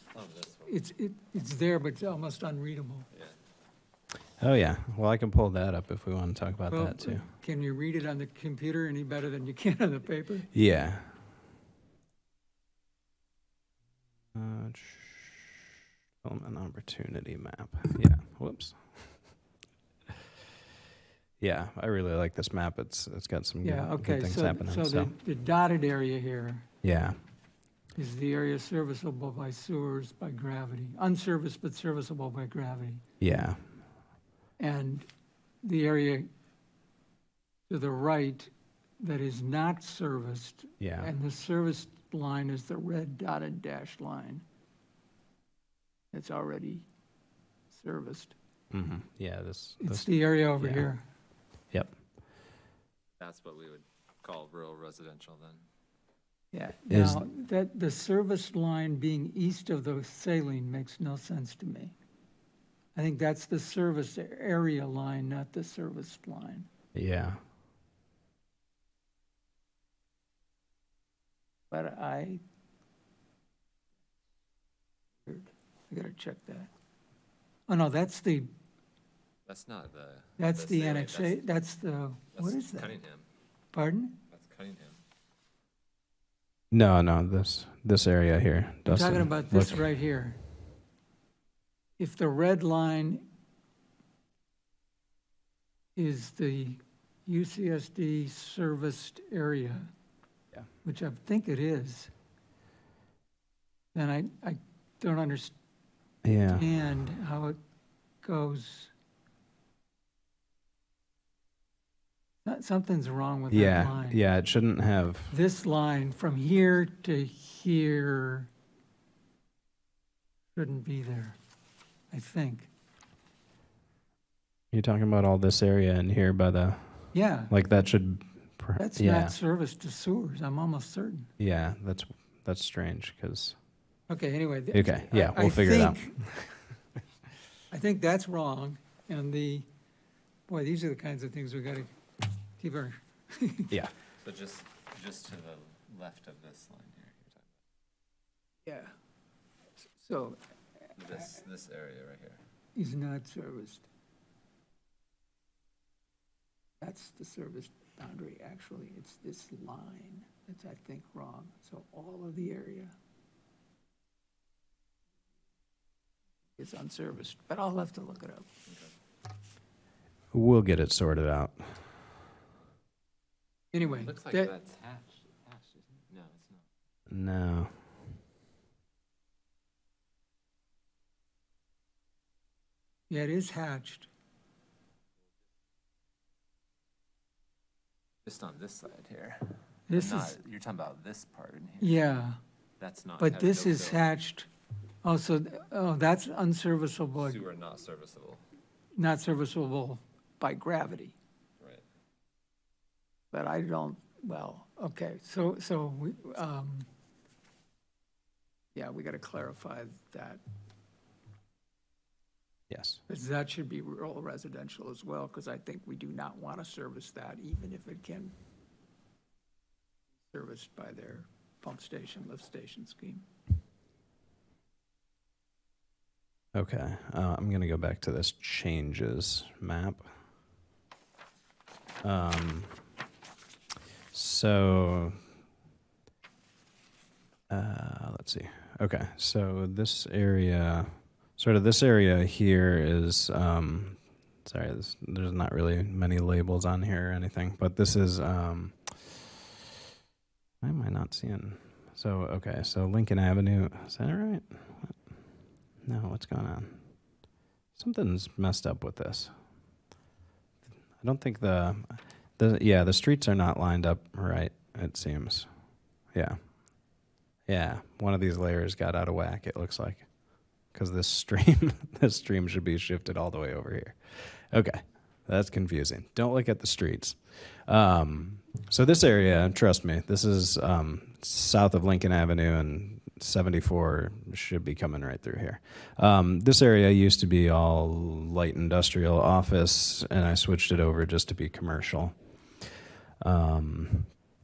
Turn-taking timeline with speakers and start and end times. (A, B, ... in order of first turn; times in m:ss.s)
0:00.1-0:00.8 A
0:00.6-0:03.1 B
0:03.1-0:03.4 A
0:04.4-0:07.3 C
0:06.7-0:10.5 B
0:10.5-0:11.1 C
0:14.3-0:15.7 C
0:16.2-0:19.3 C
0:21.4-0:25.1 C
0:23.6-0:26.6 B
0:26.8-0:27.2 C
0:27.9-0:33.0 B
0:33.2-0:33.6 C
0:34.6-0:35.1 B
0:35.6-0:36.3 B
0:37.7-0:44.4 B
0:40.8-0:41.1 C
0:46.1-0:46.9 B
0:47.7-0:48.4 B
0:48.7-0:50.9 C
0:49.8-0:51.0 B
0:51.7-0:52.0 C
0:53.2-0:55.6 A
0:56.5-1:01.9 B
0:56.9-0:57.2 C
1:02.9-1:06.7 B
1:06.9-1:07.4 C
1:11.7-1:12.4 B
1:15.2-1:16.7 B
1:17.7-1:18.5 B
1:19.4-1:21.5 A
1:20.4-1:22.9 B
1:22.3-1:23.2 A
1:23.7-1:24.2 B
1:24.3-1:25.0 A
1:26.7-1:29.9 C
1:28.9-1:30.4 B
1:32.0-1:33.2 B
1:36.0-1:39.9 B
1:40.8-1:42.1 B
1:43.9-1:45.5 B
1:46.2-1:46.7 C
1:46.5-1:47.6 B
1:48.2-1:48.9 B
1:52.4-1:54.2 B
1:53.5-1:55.3 C
1:55.3-1:58.5 B
2:00.5-2:01.4 B
2:02.1-2:02.7 B
2:04.7-2:09.4 C
2:07.1-2:07.5 B
2:08.8-2:11.3 B
2:11.4-2:13.6 C
2:14.1-2:16.2 B
2:14.7-2:16.7 C
2:17.7-2:19.7 B
2:20.5-2:22.0 B
2:22.5-2:23.7 B
2:24.2-2:27.5 A
2:28.6-2:28.9 B
2:29.8-2:30.4 B
2:30.9-2:32.4 A
2:32.8-2:33.9 B
2:36.8-2:42.9 B
2:46.6-2:48.5 B
2:48.6-2:48.9 A
2:50.3-2:52.0 C
2:53.7-2:54.5 B
2:53.8-2:56.6 A
2:57.1-2:57.8 C
3:03.1-3:04.1 B
3:08.2-3:12.0 A
3:09.9-3:10.3 B
3:11.8-3:12.4 B
3:12.8-3:14.0 A
3:13.2-3:14.5 B
3:15.0-3:17.4 B
3:17.2-3:18.4 A
3:18.9-3:21.2 B
3:23.3-3:26.9 B
3:28.7-3:30.4 B
3:32.7-3:33.0 C
3:33.1-3:38.3 B
3:40.3-3:43.2 B
3:46.5-3:50.1 C
3:52.0-3:52.8 C
3:54.1-3:55.1 C
3:57.5-4:09.3 C
4:10.6-4:15.1 C
4:15.8-4:16.9 C
4:17.7-4:19.3 C
4:21.0-4:25.5 C
4:27.5-4:30.1 C
4:30.7-4:52.7 C
4:53.2-4:54.2 C